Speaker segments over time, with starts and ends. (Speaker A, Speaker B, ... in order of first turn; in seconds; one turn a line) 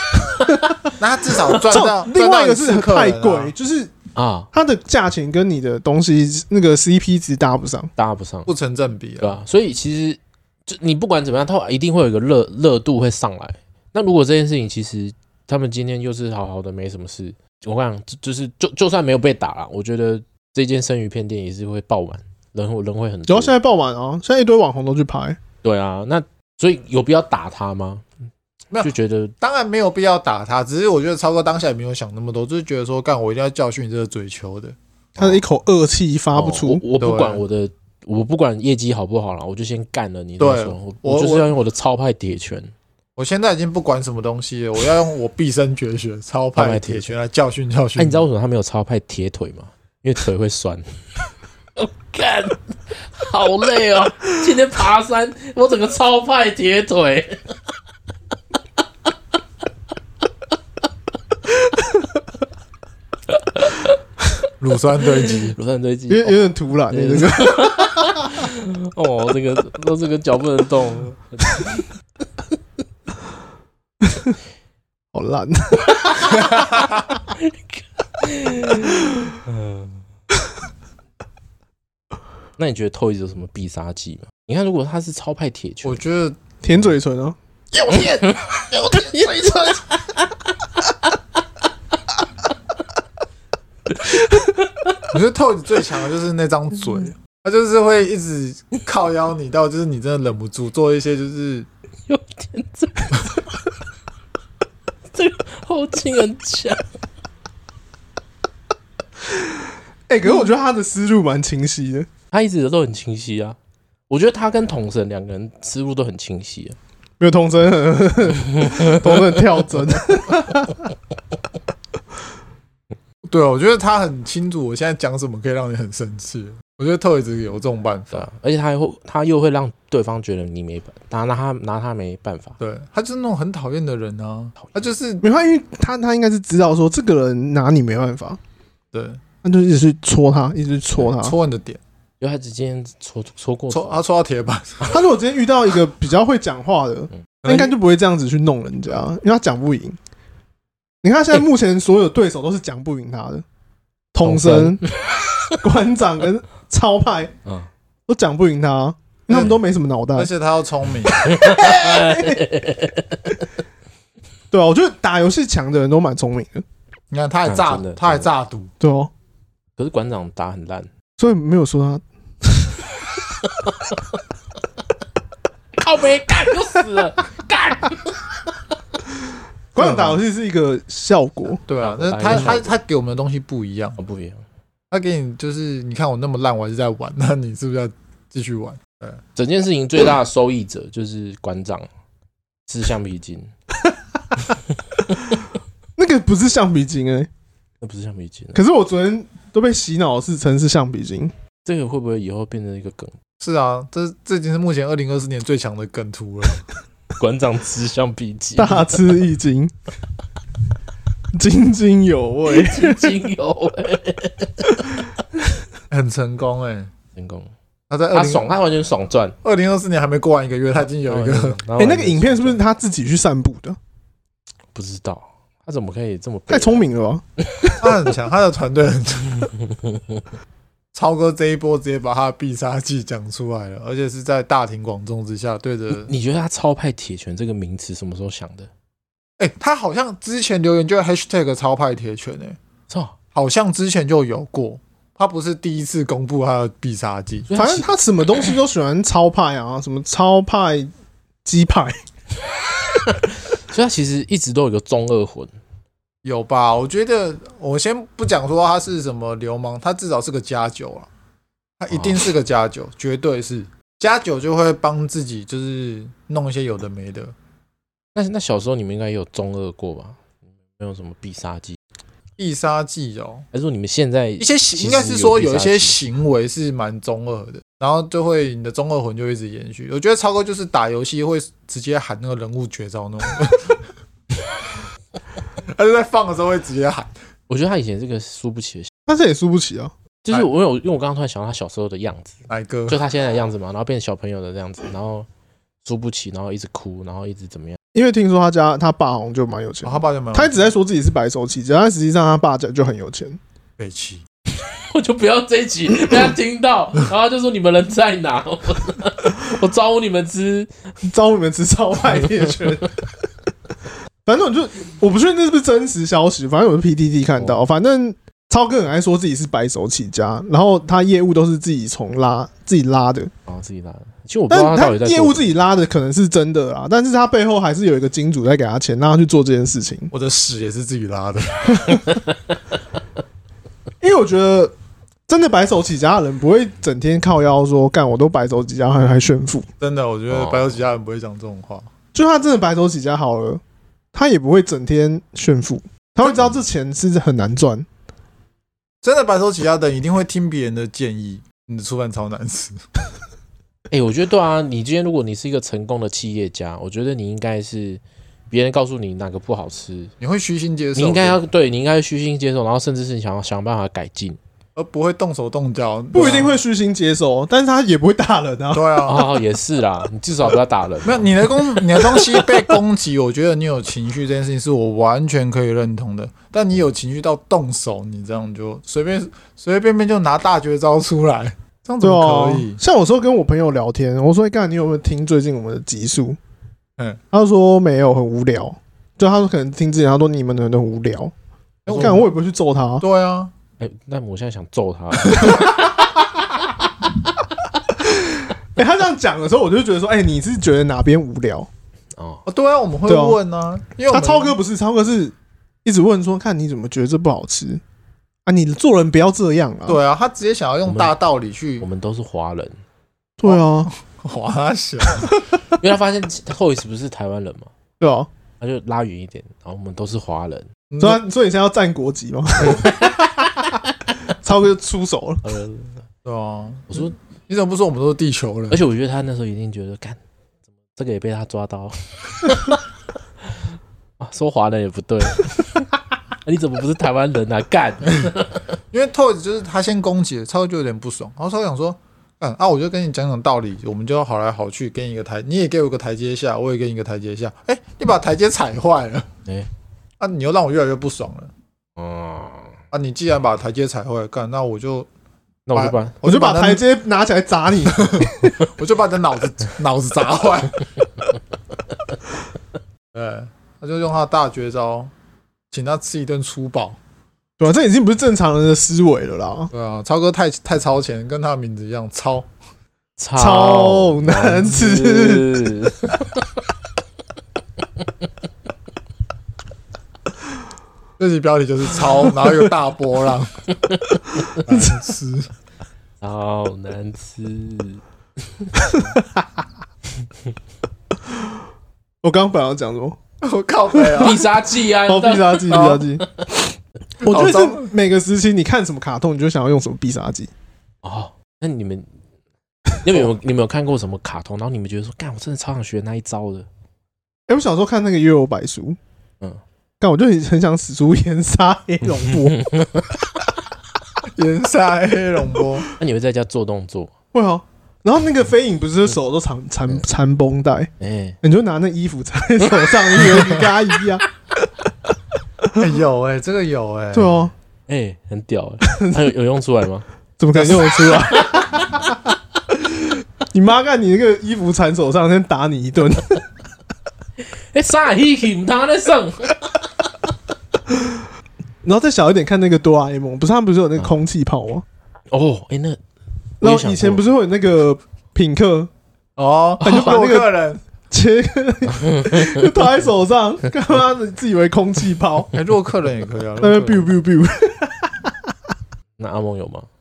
Speaker A: 0.3-0.6
Speaker B: 0.5-0.9
Speaker C: 1.0-3.5
Speaker B: 1.7-3.9
Speaker A: 4.2-4.5
Speaker B: 4.5-7.9
Speaker A: 8.0-8.5
Speaker C: 8.5-9.4
Speaker A: 9.2-23.6
Speaker B: 23.3-25.4
Speaker A: 25.6-28.1
Speaker C: 28.7-34.8
Speaker A: 28.8-29.3
Speaker B: 35.2-36.8
Speaker A: 36.3-42.7
Speaker C: 37.0-37.4
Speaker C: 40.4-41.5
Speaker C: 43.2-48.2
Speaker A: 46.6-47.1
Speaker A: 48.0-50.9
Speaker A: 51.8-57.5
Speaker A: 63.3-64.0
Speaker C: 64.6-65.6
Speaker A: 65.5-71.9
Speaker B: 66.1-68.3
Speaker B: 74.0-74.4
Speaker B: 75.1-76.9
Speaker A: 76.0-76.6
Speaker A: 77.3-80.0
Speaker A: 82.6-86.0
Speaker C: 85.8-86.4
Speaker B: 86.6-87.4
Speaker A: 87.8-90.3
Speaker A: 90.9-91.1
Speaker A: 93.9-95.0
Speaker C: 95.1-101.7
Speaker A: 102.1-103.4
Speaker A: 105.1-106.8
Speaker B: 109.3-112.1
Speaker A: 112.3-113.6
Speaker A: 114.1-116.8
Speaker B: 117.2-120.8
Speaker A: 118.6-119.3
Speaker C: 123.3-128.3
Speaker A: 128.1-132.6
Speaker C: 132.6-135.2
Speaker B: 135.2-138.4
Speaker C: 138.9-139.2
Speaker B: 139.4-141.3
Speaker C: 141.1-141.8
Speaker A: 142.2-144.0
Speaker C: 143.7-145.0
Speaker B: 144.8-150.0
Speaker C: 147.4-147.8
Speaker B: 151.0-153.4
Speaker B: 154.1-154.8
Speaker A: 154.2-155.6
Speaker B: 155.6-157.3
Speaker B: 158.1-160.3
Speaker C: 159.3-159.6
Speaker C: 160.2-161.3
Speaker A: 161.2-163.4
Speaker B: 161.4-162.4
Speaker B: 164.5-166.7
Speaker C: 167.1-168.7
Speaker A: 167.5-168.3
Speaker B: 168.8-169.1
Speaker A: 169.8-170.9
Speaker B: 171.2-172.9
Speaker A: 173.4-174.2
Speaker A: 175.8-178.4
Speaker B: 179.7-181.6
Speaker C: 179.8-180.2
Speaker C: 181.7-184.0
Speaker A: 181.8-182.7
Speaker A: 184.0-184.4
Speaker C: 184.9-189.2
Speaker A: 189.4-191.9
Speaker A: 192.7-193.5
Speaker A: 194.4-195.2
Speaker B: 196.0-197.3
Speaker A: 197.8-198.6
Speaker B: 198.5-201.3
Speaker A: 201.7-203.2
Speaker C: 203.4-206.6
Speaker A: 207.2-209.2
Speaker B: 208.6-209.7
Speaker B: 211.3-213.2
Speaker A: 212.5-215.0
Speaker C: 215.9-216.9
Speaker A: 217.2-217.5
Speaker C: 217.9-218.6
Speaker A: 218.1-219.3
Speaker C: 219.4-221.6
Speaker A: 221.1-222.6
Speaker B: 221.8-223.8
Speaker A: 224.8-226.8
Speaker B: 226.5-227.9
Speaker C: 227.8-229.5
Speaker A: 229.4-230.2
Speaker C: 230.9-236.1
Speaker A: 235.9-238.7
Speaker C: 239.4-242.6
Speaker C: 243.3-247.5
Speaker A: 247.5-247.9
Speaker B: 247.5-250.9
Speaker B: 251.4-252.0
Speaker A: 253.1-255.5
Speaker C: 256.2-261.1
Speaker C: 261.8-267.3
Speaker A: 268.1-270.2
Speaker A: 270.8-271.8
Speaker C: 272.4-273.5
Speaker A: 273.5-276.0
Speaker C: 274.4-283.8
Speaker C: 285.7-287.1
Speaker A: 287.5-288.9
Speaker B: 289.1-289.9
Speaker A: 290.2-292.4
Speaker C: 292.5-293.0
Speaker A: 292.9-295.3
Speaker A: 295.8-297.8
Speaker B: 297.9-303.4
Speaker C: 299.8-300.7
Speaker C: 303.8-304.2
Speaker A: 304.7-310.7
Speaker B: 311.1-312.9
Speaker B: 314.2-323.3
Speaker A: 323.5-325.5
Speaker B: 324.5-330.1
Speaker C: 330.1-332.0
Speaker A: 331.8-332.5
Speaker B: 334.0-334.7
Speaker B: 335.3-339.7
Speaker C: 339.8-341.9
Speaker A: 340.3-340.7
Speaker B: 342.1-343.6
Speaker B: 344.1-347.9
Speaker C: 349.0-352.8
Speaker A: 353.9-360.1
Speaker C: 360.2-361.4
Speaker A: 361.0-364.4
Speaker C: 364.8-366.6
Speaker B: 366.1-368.9
Speaker C: 368.7-369.3
Speaker A: 369.1-371.3
Speaker C: 371.0-382.8
Speaker B: 372.0-372.5
Speaker B: 382.0-386.4
Speaker B: 387.3-391.3
Speaker C: 391.9-392.3
Speaker B: 391.9-393.1
Speaker C: 393.0-393.5
Speaker A: 393.8-395.8
Speaker B: 398.0-401.7
Speaker A: 402.2-402.4
Speaker C: 402.5-404.6
Speaker B: 403.1-403.4
Speaker B: 404.1-407.8
Speaker B: 408.4-410.0
Speaker C: 409.9-411.9
Speaker A: 410.9-411.1
Speaker A: 411.8-412.8
Speaker B: 413.4-413.9
Speaker C: 413.4-415.4
Speaker A: 415.8-417.7
Speaker B: 418.0-418.3
Speaker A: 418.6-420.7
Speaker C: 420.9-421.2
Speaker B: 421.0-423.4
Speaker A: 422.6-423.2
Speaker B: 424.3-425.4
Speaker A: 425.4-426.0
Speaker C: 426.2-428.8
Speaker A: 428.7-430.2
Speaker A: 430.9-432.8
Speaker A: 434.2-435.9
Speaker A: 436.4-438.6
Speaker C: 438.9-449.3
Speaker C: 450.2-451.5
Speaker A: 452.0-452.7
Speaker C: 452.9-455.1
Speaker A: 455.7-456.2
Speaker C: 455.7-456.8
Speaker B: 456.2-458.6
Speaker C: 457.9-460.8
Speaker C: 463.1-465.1
Speaker C: 465.7-467.0
Speaker B: 467.6-469.7
Speaker C: 469.7-472.5
Speaker A: 473.2-476.6
Speaker B: 473.4-475.7
Speaker C: 481.2-483.6
Speaker A: 483.8-484.6
Speaker C: 484.6-485.5
Speaker B: 484.7-484.9
Speaker A: 486.2-489.0
Speaker B: 488.9-489.5
Speaker B: 492.2-493.2
Speaker C: 493.4-494.4
Speaker B: 493.9-494.4
Speaker A: 494.2-496.4
Speaker B: 495.1-500.5
Speaker C: 495.7-496.1
Speaker C: 497.2-497.9
Speaker A: 501.0-502.1
Speaker A: 503.0-506.7
Speaker B: 507.5-509.0
Speaker B: 510.0-512.6
Speaker A: 512.3-513.2
Speaker C: 514.4-515.9
Speaker A: 516.0-517.1
Speaker B: 517.3-520.9
Speaker A: 521.0-521.4
Speaker B: 521.4-524.2
Speaker A: 522.8-523.2
Speaker C: 525.8-527.5
Speaker B: 527.1-527.5
Speaker A: 527.9-530.1
Speaker B: 528.9-529.3
Speaker B: 530.4-532.1
Speaker C: 530.5-530.9
Speaker A: 531.3-531.8
Speaker B: 533.5-536.4
Speaker A: 537.7-539.8
Speaker B: 540.9-541.2
Speaker B: 541.8-544.9
Speaker A: 545.3-546.0
Speaker A: 546.6-547.2
Speaker B: 546.6-548.9
Speaker C: 549.4-550.8
Speaker B: 549.8-550.5
Speaker B: 551.1-555.5
Speaker A: 551.9-552.7
Speaker C: 555.5-557.1
Speaker B: 556.6-558.4
Speaker A: 559.2-559.9